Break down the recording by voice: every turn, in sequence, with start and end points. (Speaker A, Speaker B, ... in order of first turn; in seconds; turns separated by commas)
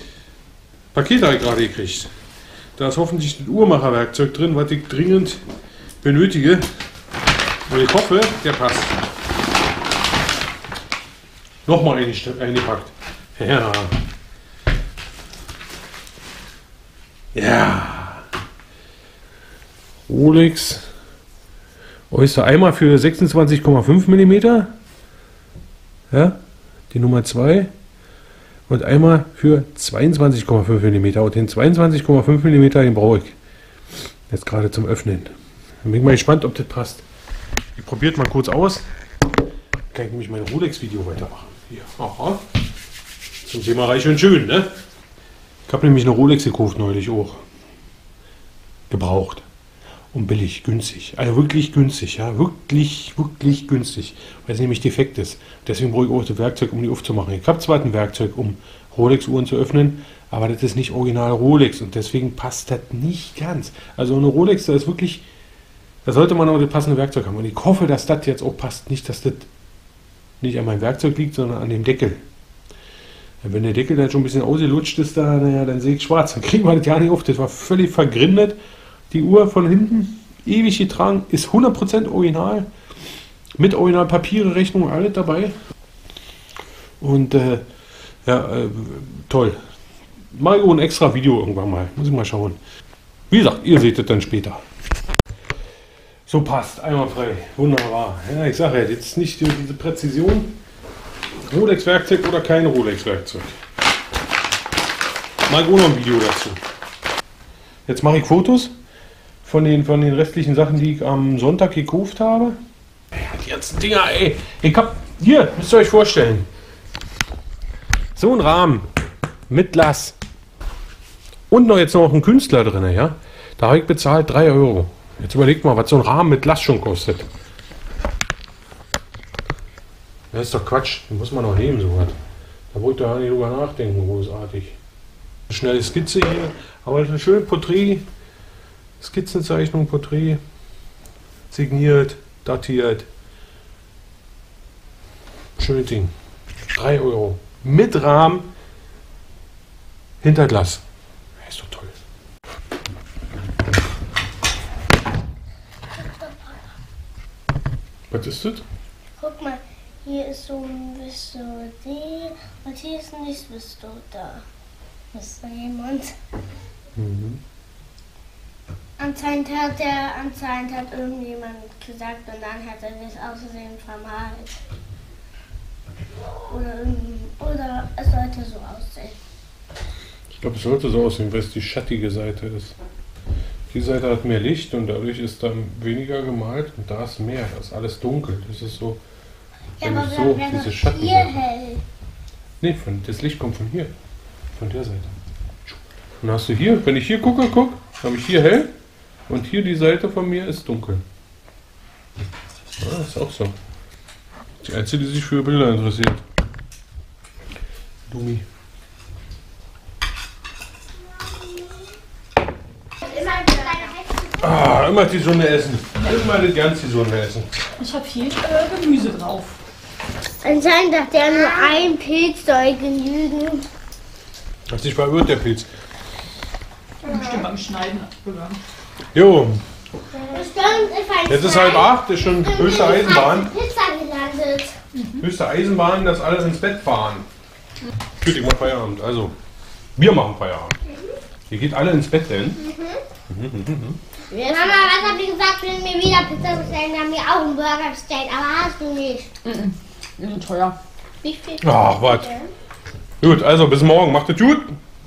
Speaker A: 0.9-2.1, Speaker A: 2.8-5.4, Speaker A: 6.0-6.7, Speaker A: 7.7-9.0, Speaker A: 11.7-14.0, Speaker A: 17.3-18.2, Speaker A: 20.1-20.9, Speaker A: 22.1-24.7, Speaker A: 26.1-26.4, Speaker A: 26.9-27.7, Speaker A: 28.7-33.4, Speaker A: 34.3-37.0, Speaker A: 37.7-38.9, Speaker A: 39.9-42.4, Speaker A: 43.4-44.7, Speaker A: 45.7-47.4, Speaker A: 48.9-49.5, Speaker A: 50.1-65.2, Speaker A: 66.0-69.5, Speaker A: 70.4-72.2, Speaker A: 73.4-78.6, Speaker A: 79.1-82.7, Speaker A: 83.6-85.5, Speaker A: 87.0-87.6, Speaker A: 88.2-89.6, Speaker A: 90.3-92.6, Speaker A: 93.3-94.6, Speaker A: 96.3-100.6, Speaker A: 101.4-103.5, Speaker A: 105.5-106.6, Speaker A: 107.9-108.7, Speaker A: 109.4-112.6, Speaker A: 113.1-116.5, Speaker A: 118.1-118.9, Speaker A: 119.5-120.2, Speaker A: 121.5-127.3, Speaker A: 130.3-132.1, Speaker A: 132.7-134.8, Speaker A: 135.5-138.1, Speaker A: 139.0-140.4, Speaker A: 141.5-143.1, Speaker A: 145.6-146.1, Speaker A: 146.7-148.5, Speaker A: 150.2-150.8, Speaker A: 151.4-151.9, Speaker B: 155.9-156.6, Speaker A: 158.1-158.6, Speaker B: 159.2-164.4, Speaker B: 165.1-166.1, Speaker A: 166.9-167.4, Speaker B: 169.0-174.6, Speaker B: 176.5-179.2, Speaker A: 180.4-182.7, Speaker A: 183.7-189.0, Speaker B: 189.8-191.8, Speaker A: 189.8-191.4, Speaker A: 192.6-193.9, Speaker A: 194.5-198.7, Speaker A: 199.3-201.0, Speaker A: 202.8-203.6, Speaker A: 204.6-206.2, Speaker A: 208.1-208.4, Speaker B: 213.0-214.4, Speaker A: 214.4-217.5, Speaker C: 217.8-219.6, Speaker B: 220.4-223.7, Speaker A: 224.7-225.7, Speaker C: 227.0-228.6, Speaker A: 229.1-229.6, Speaker B: 230.3-234.8, Speaker A: 231.3-233.5, Speaker C: 234.9-235.2, Speaker A: 235.2-237.3, Speaker A: 238.2-239.3, Speaker A: 239.9-240.7, Speaker A: 241.5-242.6, Speaker B: 242.6-243.0, Speaker A: 243.3-244.0, Speaker B: 244.3-249.3, Speaker C: 249.4-250.8, Speaker B: 251.2-252.5, Speaker A: 251.6-252.3, Speaker A: 253.2-254.8